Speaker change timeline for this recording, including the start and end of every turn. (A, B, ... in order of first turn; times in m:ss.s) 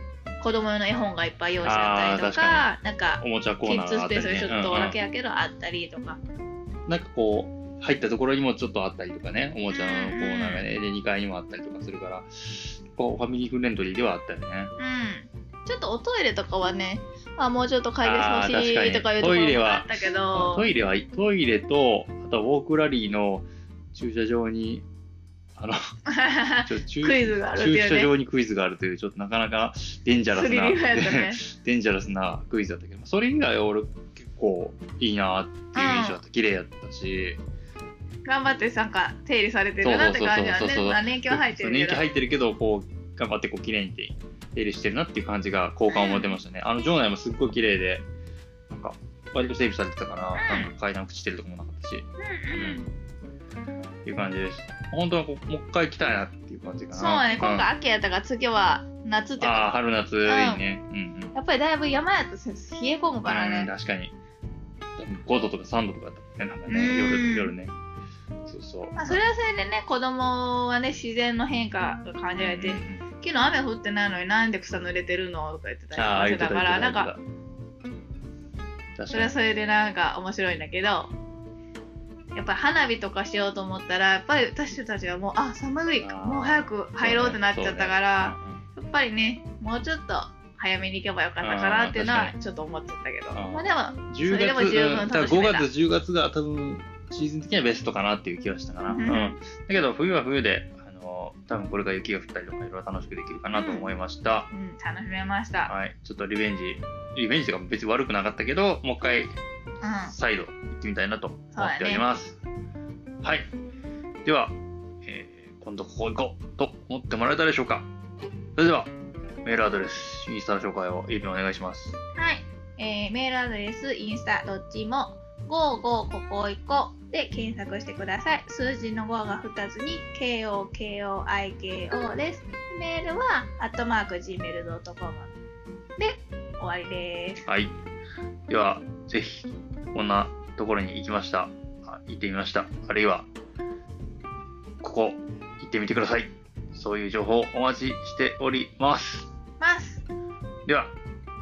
0:00.4-0:06.2 A
0:01.6-0:02.7 B
0:03.2-0:05.0 B
0:06.9-0:14.7 B
0:09.7-0:10.6 A
0:14.8-0:20.7 A
0:18.0-0:24.9 B
0:26.1-0:28.1 A
0:26.6-0:37.4 B
0:30.3-0:31.4 A
0:35.7-0:36.2 A
0:38.2-0:42.0 A
0:39.8-0:48.1 B
0:45.9-0:46.4 A
0:48.7-0:52.9 B
0:50.4-0:50.7 A
0:52.2-0:52.8 A
0:54.0-0:57.7 B
0:56.9-1:00.6 A
0:59.4-1:01.3 B
1:01.3-1:03.7 A
1:03.2-1:04.1 B
1:05.0-1:07.7 B
1:06.7-1:07.5 A
1:08.5-1:09.2 B
1:09.0-1:17.1 A
1:12.4-1:13.0 B
1:16.0-1:17.2 B
1:19.0-1:19.3 B
1:19.1-1:21.1 A
1:22.4-1:35.7 A
1:26.0-1:28.6 B
1:31.4-1:32.4 B
1:33.3-1:44.5 B
1:38.9-1:39.4 A
1:43.5-1:43.9 A
1:44.5-1:45.7 A
1:45.7-1:49.3 B
1:49.8-1:50.2 A
1:50.1-1:52.4 B
1:51.5-1:52.1 A
1:53.2-1:53.5 B
1:54.2-1:57.9 B
1:58.6-1:58.9 B
1:59.4-2:02.0 B
2:02.2-2:15.3 A
2:16.0-2:17.4 A
2:17.5-2:17.7 B
2:18.5-2:23.3 B
2:24.8-2:29.3 B
2:29.6-2:30.0 A
2:30.7-2:31.0 B